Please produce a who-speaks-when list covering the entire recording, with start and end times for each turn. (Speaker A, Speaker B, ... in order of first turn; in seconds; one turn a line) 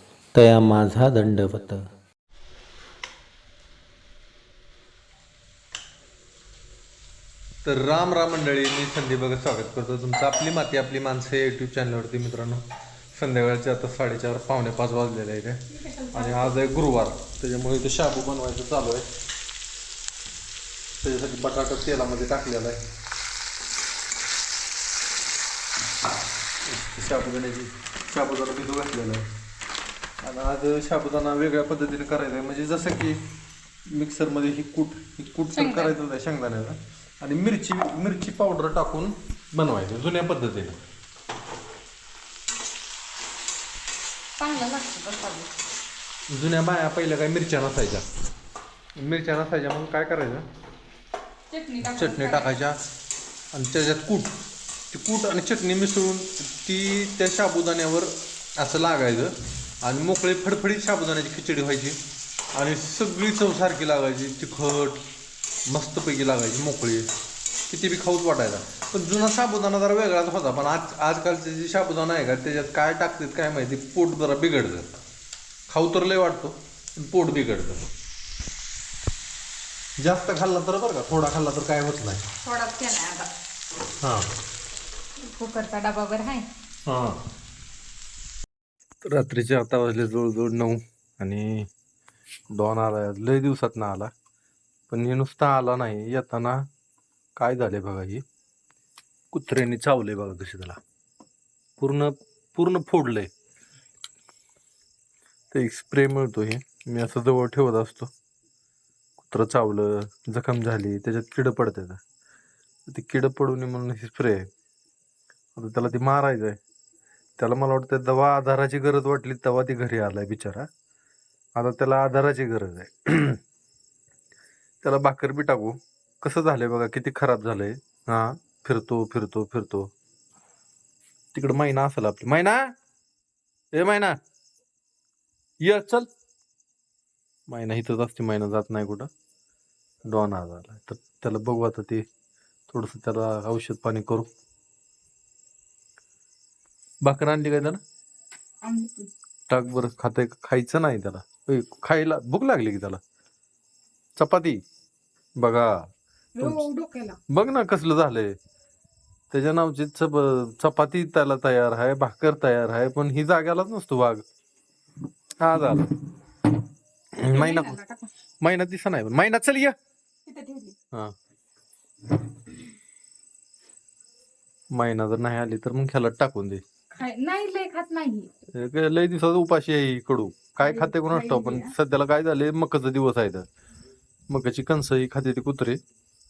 Speaker A: 0.3-1.9
Speaker A: 7.6-19.1
Speaker B: 15.7-16.6
Speaker A: 21.0-22.8
Speaker A: 26.6-29.2
Speaker A: 30.2-33.2
Speaker A: 33.9-40.8
Speaker B: 35.5-35.9
Speaker B: 44.4-45.5
Speaker A: 46.3-48.0
Speaker A: 49.0-50.5
Speaker B: 51.5-52.6
Speaker A: 51.8-52.8
Speaker A: 53.5-54.3
Speaker A: 54.9-62.0
Speaker A: 62.5-65.0
Speaker A: 65.7-67.1
Speaker A: 67.7-74.9
Speaker A: 75.7-77.8
Speaker A: 80.0-82.2
Speaker B: 82.4-83.3
Speaker A: 84.0-84.3
Speaker B: 85.2-86.5
Speaker A: 86.9-87.2
Speaker A: 89.0-91.7
Speaker A: 92.5-94.1
Speaker A: 94.9-96.7
Speaker A: 97.4-98.2
Speaker A: 99.3-100.8
Speaker A: 101.8-103.3
Speaker A: 105.5-108.1
Speaker A: 109.2-112.0
Speaker A: 112.9-114.4
Speaker A: 115.5-116.6
Speaker A: 117.4-120.7
Speaker A: 121.5-123.4
Speaker A: 124.8-129.9
Speaker A: 131.3-132.6
Speaker A: 133.7-134.2
Speaker A: 135.6-136.1
Speaker A: 137.5-139.1
Speaker A: 140.1-142.1
Speaker A: 142.7-144.2
Speaker A: 147.0-147.8
Speaker B: 148.6-149.1
Speaker A: 149.5-153.0
Speaker A: 154.2-154.6
Speaker A: 155.4-155.9
Speaker B: 156.3-157.2
Speaker A: 156.4-156.6
Speaker A: 157.3-158.3
Speaker A: 159.3-164.2
Speaker A: 165.4-165.9
Speaker A: 167.2-167.8
Speaker B: 167.2-168.1
Speaker A: 168.4-169.8
Speaker B: 170.2-170.8
Speaker A: 174.7-176.6
Speaker B: 176.9-178.3
Speaker A: 178.5-183.4
Speaker B: 180.6-181.7
Speaker A: 184.3-185.8